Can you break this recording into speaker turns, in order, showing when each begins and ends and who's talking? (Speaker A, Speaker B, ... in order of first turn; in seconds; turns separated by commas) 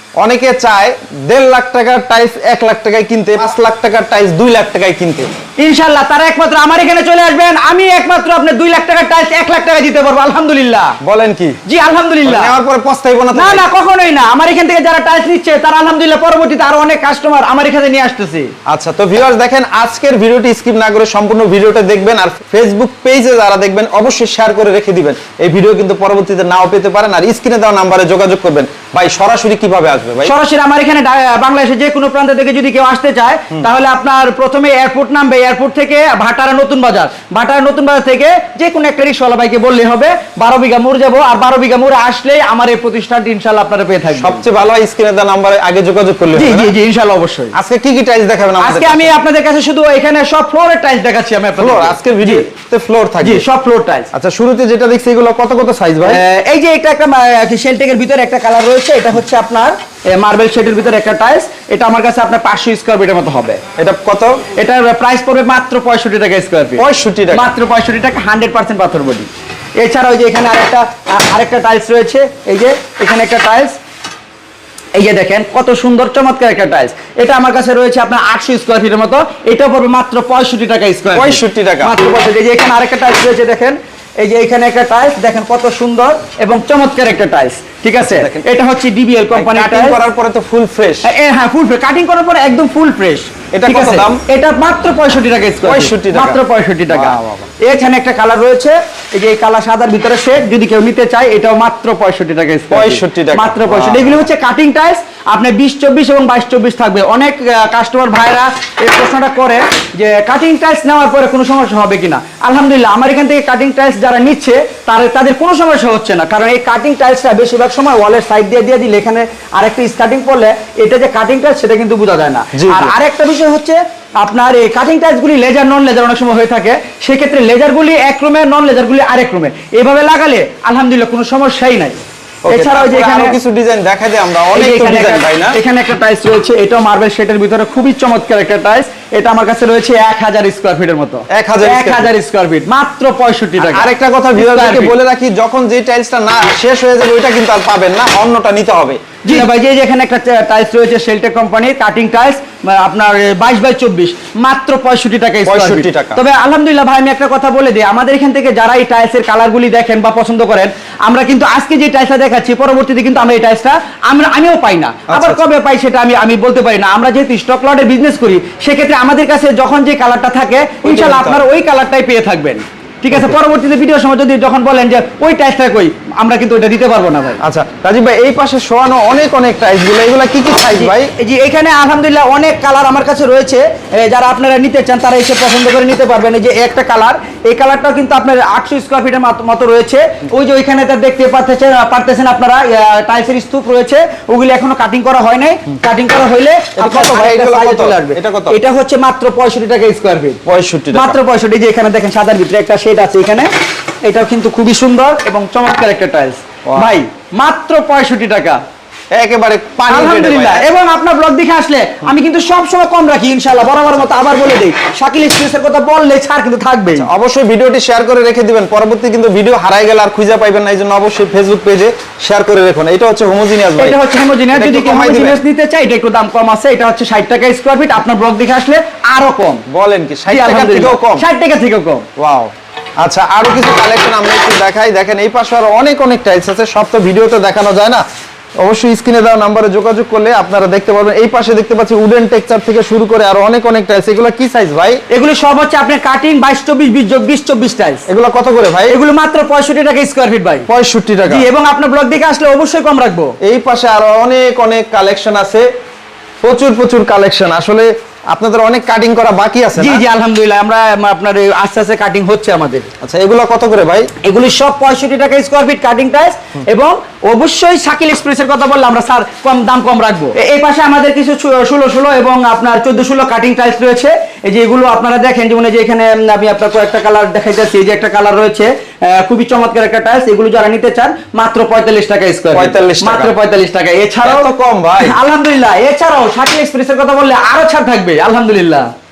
Speaker A: 0.2-5.3, Speaker B: 5.6-11.0, Speaker A: 11.0-11.6, Speaker B: 11.7-12.5, Speaker A: 12.2-13.7, Speaker B: 13.3-18.5, Speaker A: 18.6-30.3, Speaker B: 30.2-44.4, Speaker A: 44.1-46.7, Speaker B: 46.3-47.5, Speaker A: 47.5-49.1, Speaker B: 48.6-52.4, Speaker A: 51.6-53.4, Speaker B: 53.2-54.1, Speaker A: 54.1-56.2, Speaker B: 56.0-63.6, Speaker A: 63.8-64.4, Speaker B: 64.5-73.8, Speaker A: 66.8-67.5, Speaker B: 74.9-90.0, Speaker A: 81.1-82.0, Speaker A: 88.1-88.4, Speaker A: 89.3-91.1, Speaker B: 91.0-133.4, Speaker A: 93.5-94.2, Speaker A: 95.6-97.5, Speaker A: 102.7-104.2, Speaker A: 122.5-122.9, Speaker A: 132.4-135.6, Speaker B: 134.5-144.9, Speaker A: 141.3-142.1, Speaker A: 143.6-149.4, Speaker B: 149.2-177.4, Speaker A: 155.4-156.2, Speaker A: 165.1-165.4, Speaker A: 170.8-171.4, Speaker A: 177.4-181.1, Speaker B: 180.7-200.4, Speaker A: 196.8-198.6, Speaker A: 200.4-201.2, Speaker B: 200.9-203.5, Speaker B: 204.0-208.6, Speaker A: 206.7-206.9, Speaker A: 209.1-210.7, Speaker B: 209.9-217.1, Speaker A: 216.9-224.0, Speaker B: 223.8-229.6, Speaker A: 224.5-225.4, Speaker A: 229.7-231.2, Speaker B: 230.3-232.1, Speaker A: 232.2-238.0, Speaker A: 238.6-245.0, Speaker B: 245.1-248.0, Speaker A: 248.1-249.0, Speaker B: 248.9-250.7, Speaker A: 250.7-251.5, Speaker B: 251.3-253.4, Speaker A: 253.4-255.7, Speaker A: 256.4-260.0, Speaker B: 259.8-262.9, Speaker A: 263.0-264.1, Speaker B: 264.2-284.5, Speaker A: 282.5-283.3, Speaker A: 284.2-285.2, Speaker B: 285.0-288.9